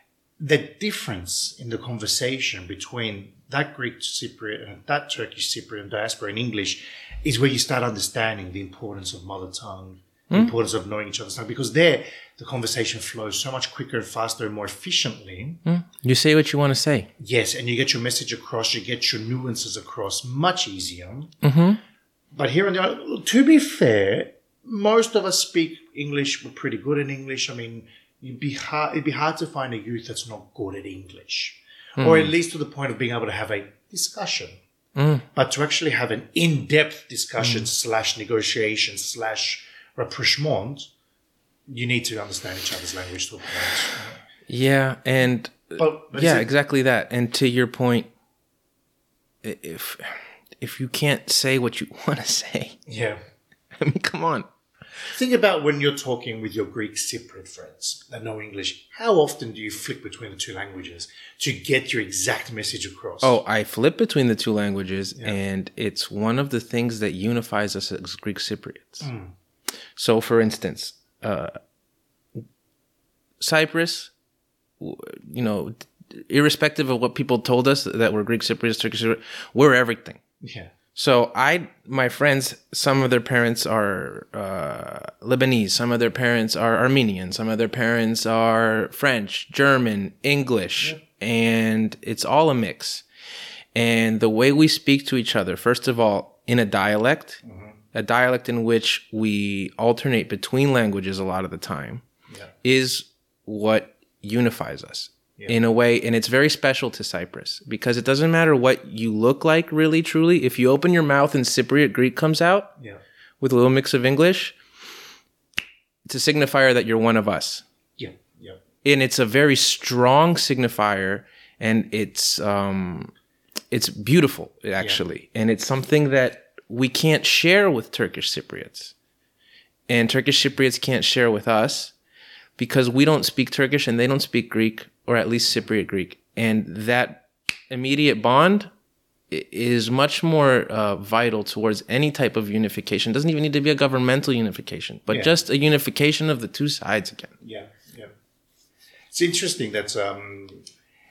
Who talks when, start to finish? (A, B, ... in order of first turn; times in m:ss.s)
0:00.4-0:15.6 A
0:15.7-0:17.1 B
0:17.2-0:21.3 A
0:21.4-0:21.8 B
0:22.3-0:34.6 A
0:32.0-0:32.3 B
0:35.0-0:35.3 B
0:35.3-0:40.9 A
0:37.4-0:37.7 B
0:41.7-0:44.2 A
0:44.5-0:48.1 B
0:45.8-0:46.5 A
0:49.4-0:52.8 B
0:52.9-0:53.2 A
0:53.7-0:54.5 B
0:55.1-1:03.4 A
1:03.2-1:09.1 B
1:09.0-1:09.3 A
1:10.0-1:11.6 B
1:13.4-1:14.1 B
1:14.8-1:20.2 B
1:20.4-1:20.7 A
1:21.0-1:33.0 B
1:33.8-1:37.4 B
1:37.4-1:37.8 A
1:37.9-1:42.0 B
1:42.6-1:52.7 B
1:53.4-1:54.6 B
1:56.1-1:57.6 B
1:58.0-1:58.6 A
1:58.8-2:03.1 B
2:03.7-2:08.9 B
2:09.9-2:11.9 B
2:12.6-2:18.7 B
2:19.3-2:27.3 B
2:27.4-2:28.1 A
2:29.1-2:30.6 A